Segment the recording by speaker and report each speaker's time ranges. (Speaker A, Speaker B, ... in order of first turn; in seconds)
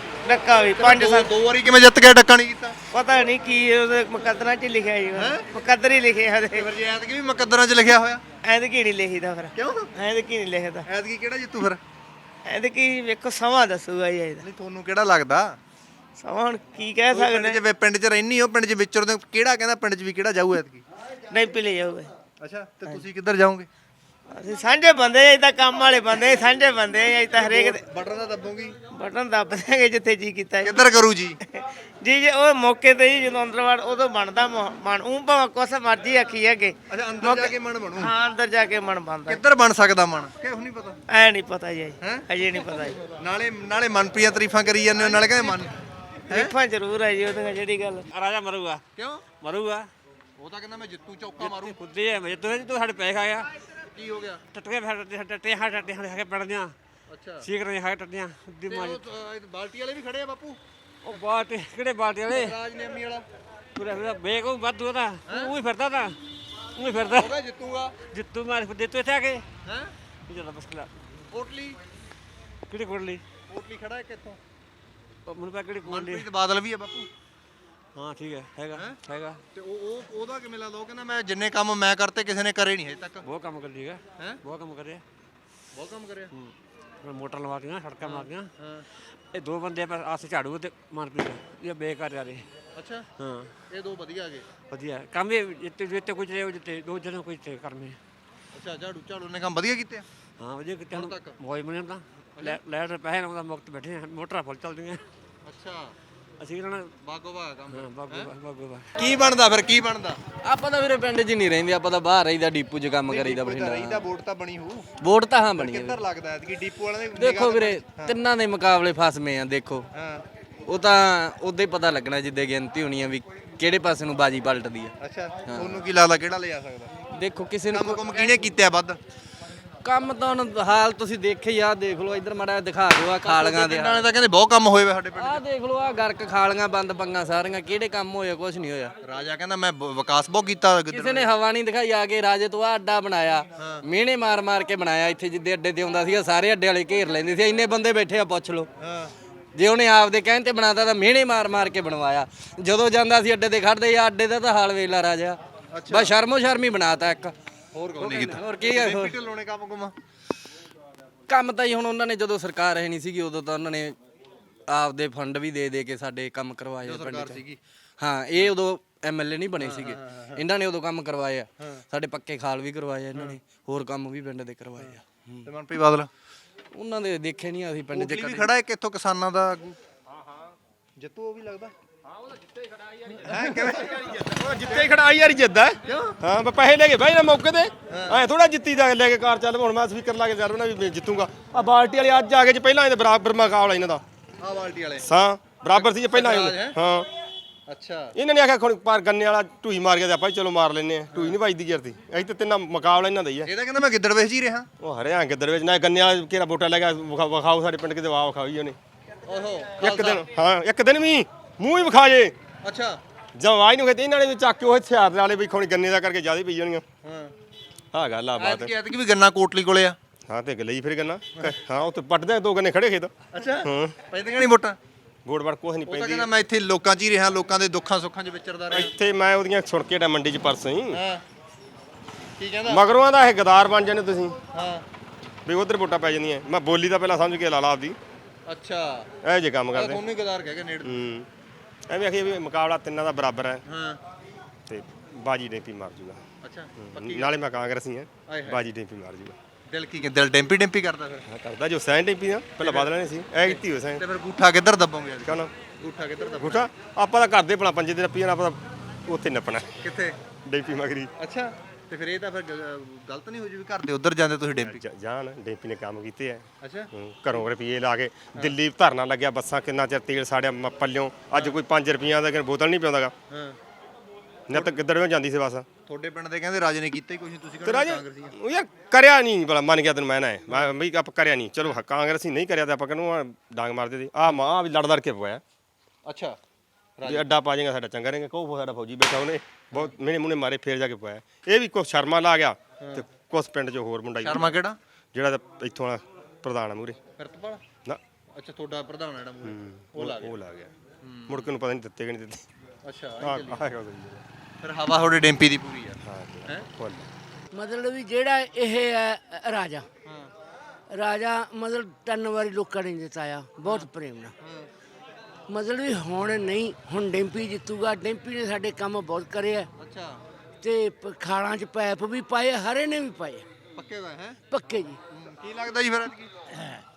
Speaker A: 0.3-1.3, 2.9-6.7, 8.4-10.9, 12.5-14.4, 16.2-17.6, 21.3-22.1, 24.3-27.8, 28.9-30.9, 31.5-39.4, 41.1-43.0, 46.3-48.0
Speaker B: 0.8-2.8, 5.2-5.5, 6.5-8.2, 9.6-9.9, 10.8-11.8, 14.4-15.6, 17.1-20.8, 22.4-23.7, 27.3-28.7, 30.6-31.4, 36.9-38.1, 39.3-41.0, 43.0-45.7, 49.0-49.2, 50.4-51.8, 53.9-54.4, 57.1-57.5, 58.7-60.6, 62.3-63.2, 65.3-65.6, 67.1-67.9, 69.7-69.9, 71.3-71.8, 73.5-74.4, 75.9-77.1, 78.7-79.0, 79.5-83.2, 85.7-86.3, 88.0-88.8, 92.8-93.0, 93.7-94.5, 98.5-100.0, 100.9-101.4, 105.5-105.9, 107.0-108.3, 109.0-110.2, 113.0-114.8, 115.5-118.2, 119.9-120.2, 125.0-126.9, 127.7-129.0, 133.2-135.4, 139.0-141.3, 143.6-143.8, 148.8-149.1, 155.7-156.1, 157.7-159.9, 166.8-167.6, 169.6-170.3, 175.5-176.1, 177.9-179.8, 181.0-181.7, 183.2-184.9, 185.9-186.2, 187.9-188.2, 194.4-195.0, 195.8-196.8, 197.7-198.1, 201.1-201.4, 203.5-204.7, 209.3-210.2, 212.6-213.0, 217.0-217.3, 218.4-220.0, 223.3-224.8, 225.9-228.9, 230.9-231.2, 232.4-232.8, 234.5-234.8, 238.5-239.1, 239.7-241.0, 243.7-244.0, 246.4-247.4, 248.3-248.7, 249.7-251.2, 252.6-256.6, 259.8-260.2, 261.2-264.8, 266.6-266.9, 271.3-271.6, 273.3-273.6, 275.9-278.3, 286.1-286.4, 287.0-287.3, 294.2-294.8, 297.2-297.6, 298.3-300.4, 301.0-301.5, 302.9-303.7, 304.6-306.0, 314.4-314.7, 319.8-320.2, 323.8-324.4, 325.1-326.3
Speaker C: 48.1-48.8, 49.4-49.9, 51.4-53.5, 54.5-56.7, 57.4-59.0, 61.0-62.6, 63.8-66.2, 66.8-67.3, 68.1-69.4, 70.3-70.9, 72.7-73.2, 75.3-76.3, 78.0-79.4, 83.2-85.0, 87.0-88.5, 89.3-92.5, 93.2-93.5, 94.7-98.0, 100.4-105.0, 106.4-106.9, 107.7-108.9
Speaker D: 110.4-114.1, 115.0-116.0, 117.1-119.9, 120.7-124.9, 125.5-125.9, 127.1-128.3, 129.8-134.1, 135.2-138.9, 140.9-148.7, 149.6-155.4, 155.9-157.3, 158.0-159.2, 161.3-164.0, 164.7-167.5, 168.0-175.5, 176.7-178.5
Speaker E: 184.3-194.0, 195.0-197.1, 198.2-203.5, 204.8-208.8, 209.8-212.3, 213.4-216.8, 217.9-218.7, 220.3-223.1, 223.6-224.0, 225.2-226.3, 228.7-231.0, 232.7-234.4, 235.5-238.0, 239.2-240.0, 240.8-241.3, 241.9-243.6, 244.7-246.2, 246.8-249.4, 251.3-254.0, 255.2-255.5, 256.4-259.8, 260.3-261.1, 264.6-273.1, 274.5-275.7, 277.6-285.4, 287.1-297.0, 299.4-300.7, 301.3-302.4, 303.2-304.2, 306.1-307.1
Speaker F: 307.5-309.9, 310.9-314.3, 315.5-319.7, 320.6-323.4, 324.5-325.0